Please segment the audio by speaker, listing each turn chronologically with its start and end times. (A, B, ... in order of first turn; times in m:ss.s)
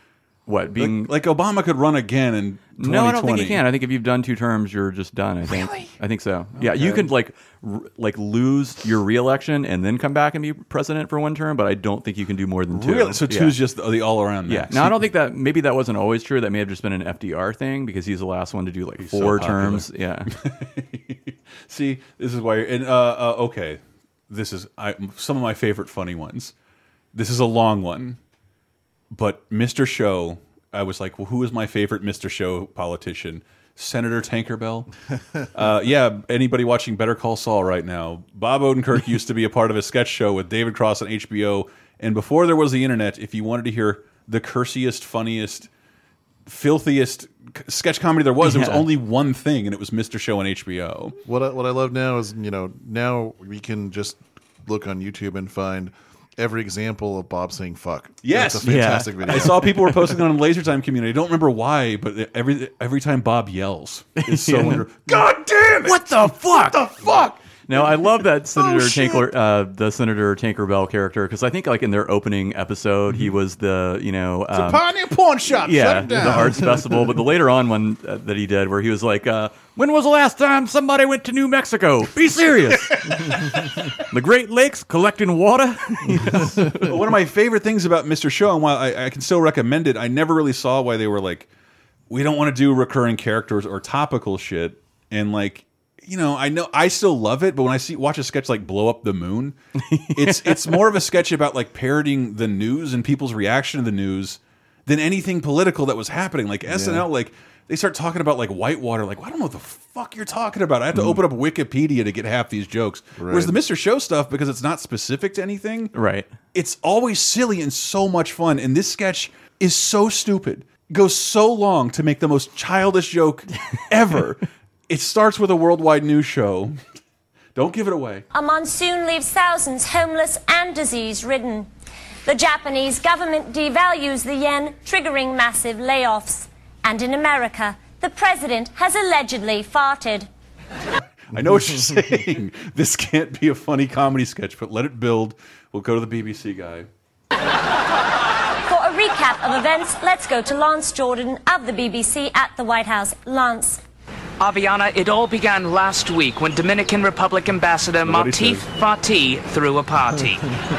0:00.5-0:01.1 A
0:00.8-0:03.6 B
0:02.8-0:13.6 A
0:06.6-0:07.1 B
0:12.7-0:15.0 B
0:14.5-0:20.3 A
0:19.0-0:26.5 B
0:27.1-0:28.2 B
0:29.1-0:34.9 B
0:35.5-0:45.7 B
0:46.5-0:51.2 B
0:48.4-0:48.9 A
0:51.2-0:59.7 C
0:58.2-1:07.4 B
0:58.6-0:59.7 A
1:04.2-1:04.9 A
1:05.8-1:14.9 A
1:08.6-1:09.2 B
1:14.5-1:16.7 B
1:15.6-1:26.9 A
1:16.1-1:16.9 C
1:26.2-1:26.6 C
1:26.8-1:31.5 B
1:32.1-1:39.6 B
1:39.8-1:40.8 A
1:40.2-1:55.9 B
1:46.7-1:47.1 C
1:53.2-1:53.6 C
1:55.9-1:56.3 A
1:56.5-2:06.8 B
2:07.6-2:08.3 B
2:08.3-2:11.7 D
2:12.2-2:20.3 D
2:21.3-2:26.9 B
2:21.5-2:22.0 C
2:28.7-2:33.8 D
2:34.4-2:40.4 E
2:38.1-2:38.7 B